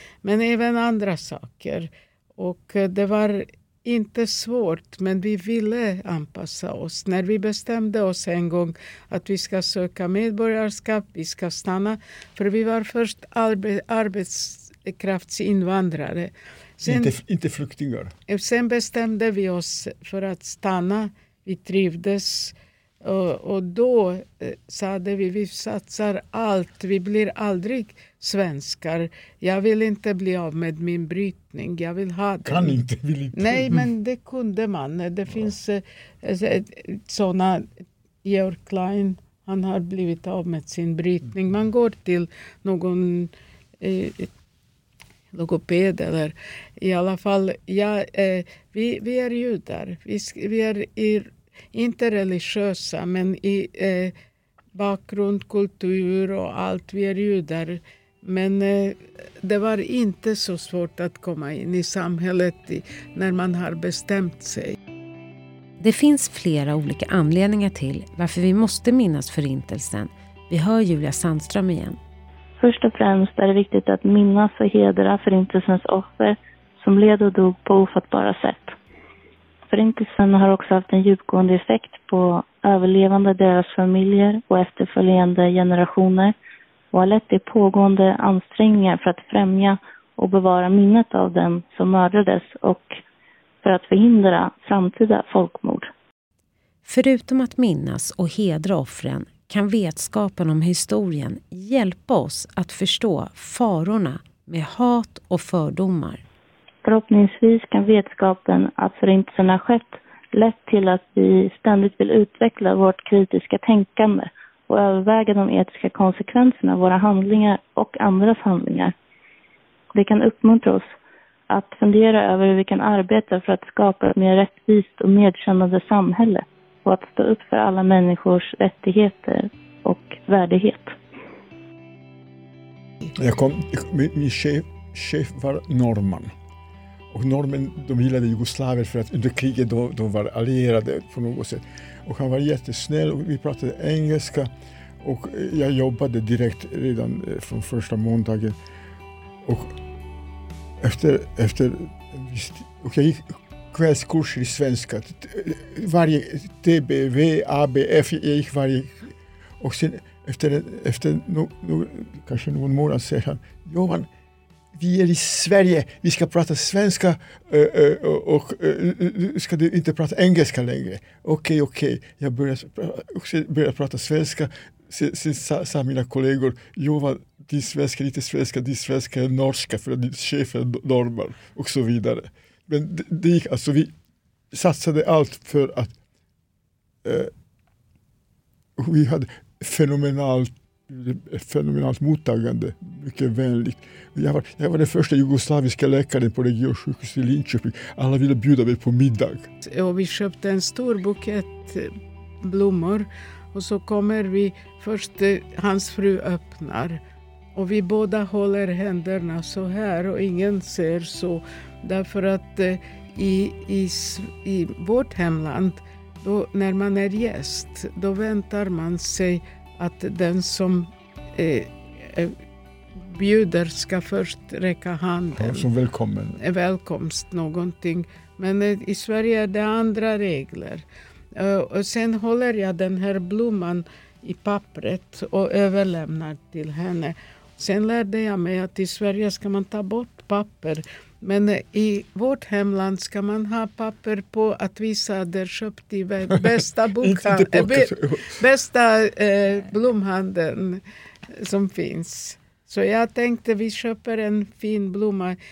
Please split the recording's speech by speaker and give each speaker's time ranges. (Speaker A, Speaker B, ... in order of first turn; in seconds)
Speaker A: 0.2-17.1, 18.3-32.8, 33.3-37.7, 38.2-44.3, 45.3-54.1, 54.8-64.8, 199.6-207.0, 207.6-222.3, 223.0-225.7, 226.4-230.8, 231.3-250.8, 251.3-255.4
Speaker B: 16.8-18.1, 32.5-33.9, 133.2-136.3, 137.1-144.5, 145.0-148.6, 149.4-149.8, 150.8-164.1, 164.8-183.9, 184.5-185.9, 187.0-187.3, 188.8-199.5, 225.3-226.4, 246.3-248.4
Speaker C: 65.8-72.0, 96.9-106.2
Speaker D: 72.6-78.8, 79.7-86.3, 86.9-92.9, 93.6-95.9, 106.8-118.9, 120.0-120.8, 121.5-131.0